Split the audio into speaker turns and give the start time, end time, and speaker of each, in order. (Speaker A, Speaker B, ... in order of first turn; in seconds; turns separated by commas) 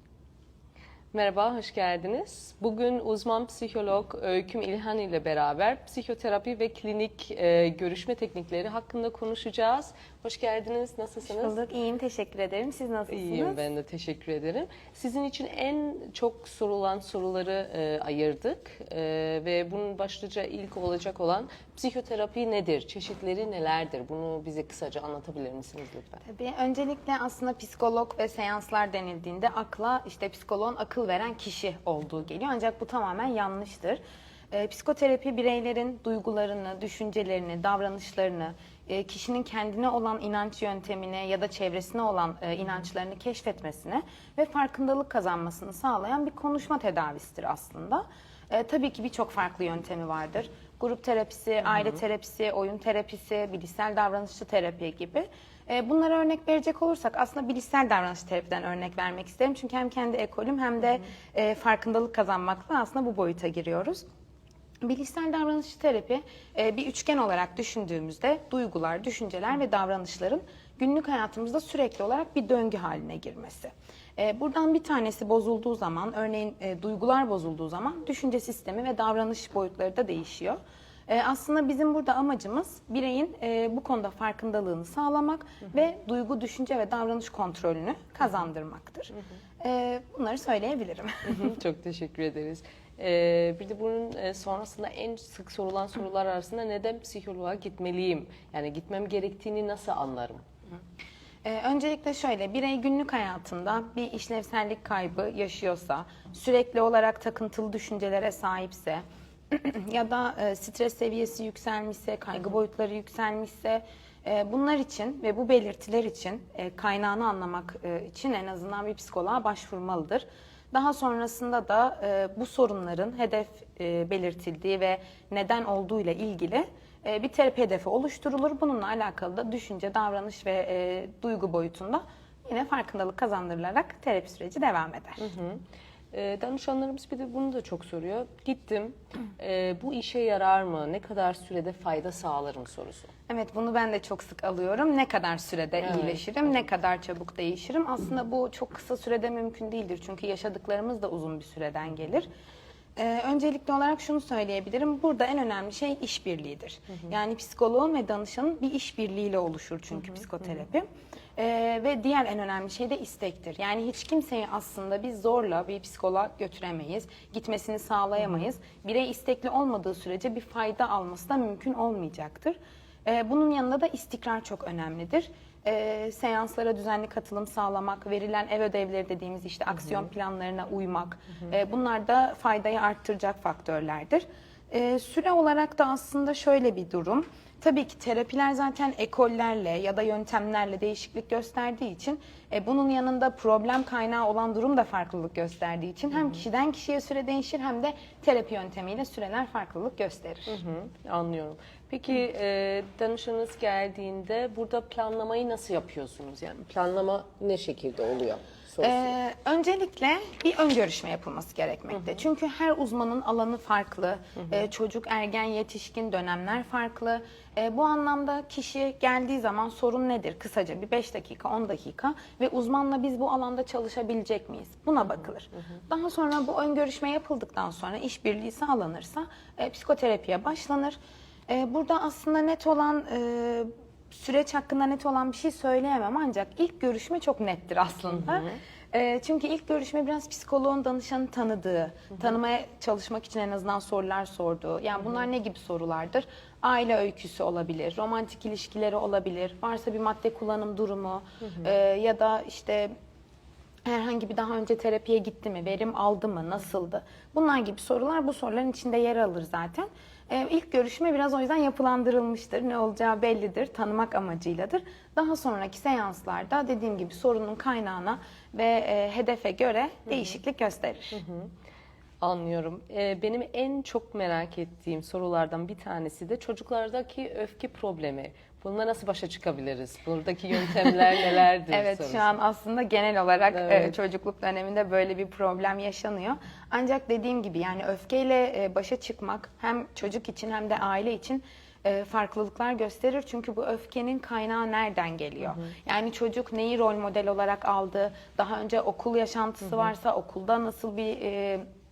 Speaker A: 1.1-11.5, Speaker B: 11.2-13.6, Speaker A: 13.1-26.2, Speaker B: 26.2-64.0, Speaker B: 64.8-91.5, Speaker A: 91.2-100.4, Speaker B: 101.4-135.2, Speaker A: 135.2-143.1, Speaker B: 143.3-152.3, Speaker A: 145.8-146.2, Speaker B: 152.9-160.8, Speaker B: 161.4-200.6, Speaker A: 200.5-209.1, Speaker B: 208.8-252.9, Speaker B: 253.8-271.2, Speaker A: 271.1-271.5, Speaker A: 272.2-282.3, Speaker B: 281.7-301.6, Speaker A: 283.5-283.9